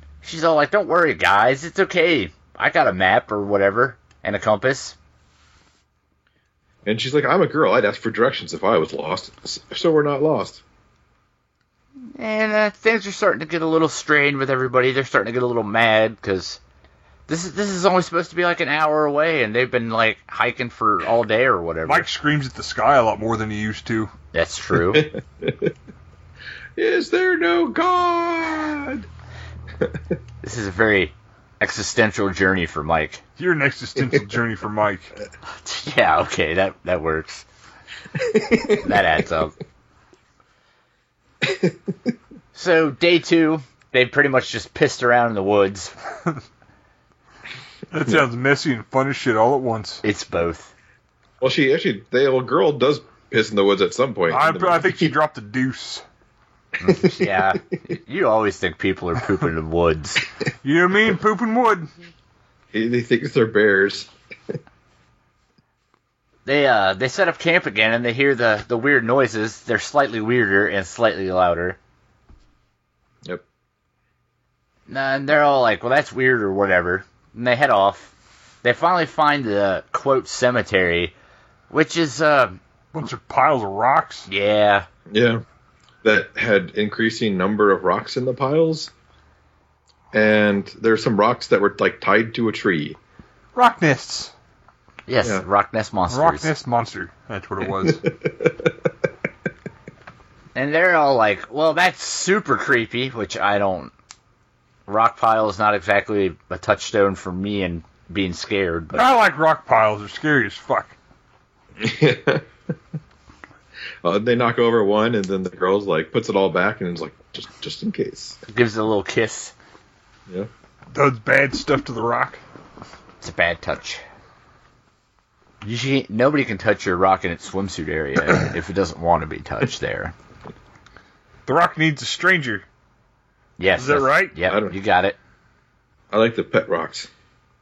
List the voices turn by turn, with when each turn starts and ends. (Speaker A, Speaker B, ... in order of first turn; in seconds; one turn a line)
Speaker A: 0.2-5.0
Speaker B: 6.8-10.6
Speaker A: 12.1-16.6
Speaker A: 17.3-22.1
Speaker C: 21.9-24.1
Speaker A: 24.3-25.1
Speaker B: 24.7-25.7
Speaker B: 26.8-29.1
Speaker A: 30.4-33.2
Speaker C: 33.4-35.1
Speaker A: 35.6-37.5
Speaker B: 38.1-39.0
Speaker A: 38.7-39.5
Speaker B: 41.4-42.1
Speaker A: 42.5-45.9
Speaker C: 47.9-50.0
Speaker A: 50.0-50.7
Speaker B: 51.4-55.1
Speaker C: 54.3-56.0
Speaker A: 56.8-60.2
Speaker C: 60.6-61.9
Speaker B: 62.7-64.1
Speaker A: 66.5-71.8
Speaker A: 74.9-78.1
Speaker A: 78.6-81.1
Speaker A: 81.7-82.5
Speaker C: 82.9-84.3
Speaker A: 84.3-84.9
Speaker B: 85.1-85.4
Speaker B: 86.0-88.9
Speaker B: 90.1-93.0
Speaker C: 93.5-94.3
Speaker A: 95.1-96.5
Speaker C: 96.1-98.0
Speaker B: 97.8-98.9
Speaker A: 100.5-103.9
Speaker A: 104.9-109.1
Speaker C: 108.9-110.9
Speaker B: 111.8-112.5
Speaker B: 114.0-118.4
Speaker A: 118.5-119.5
Speaker C: 120.9-122.4
Speaker A: 123.2-124.0
Speaker A: 125.6-130.1
Speaker C: 131.4-132.6
Speaker A: 133.6-135.2
Speaker C: 133.8-134.3
Speaker B: 134.4-134.8
Speaker B: 136.1-137.1